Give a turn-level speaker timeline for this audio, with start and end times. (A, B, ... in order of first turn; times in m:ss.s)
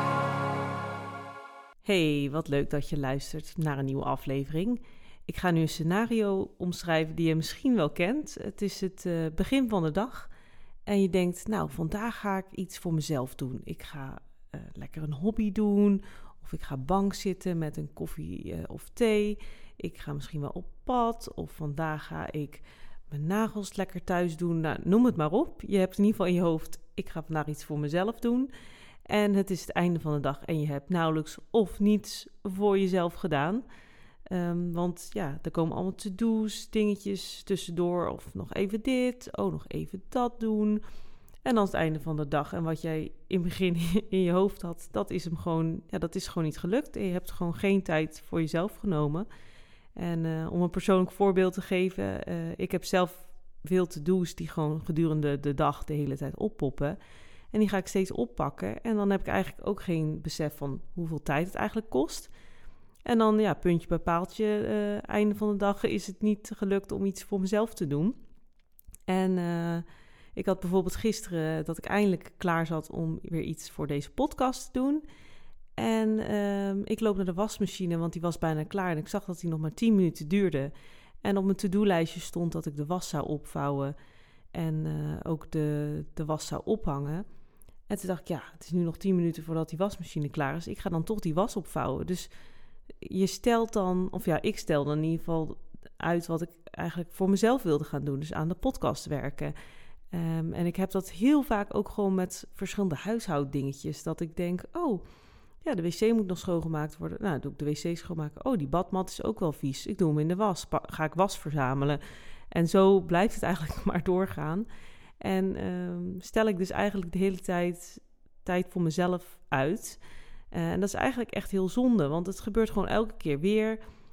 0:01.8-0:10.3 A
0:10.9-0:28.5 A
0:29.0-0:33.6 A
0:34.3-0:40.8 A
0:41.4-0:49.3 A
0:50.0-0:57.0 A
0:57.5-1:02.3 A
1:03.0-1:08.2 A
1:09.1-1:15.0 A
1:15.8-1:23.9 A
1:24.5-1:27.2 A
1:27.9-1:32.3 A
1:33.0-1:39.5 A
1:40.1-1:45.0 A
1:45.6-1:54.7 A
1:55.2-2:00.0 A
2:00.5-2:03.8 A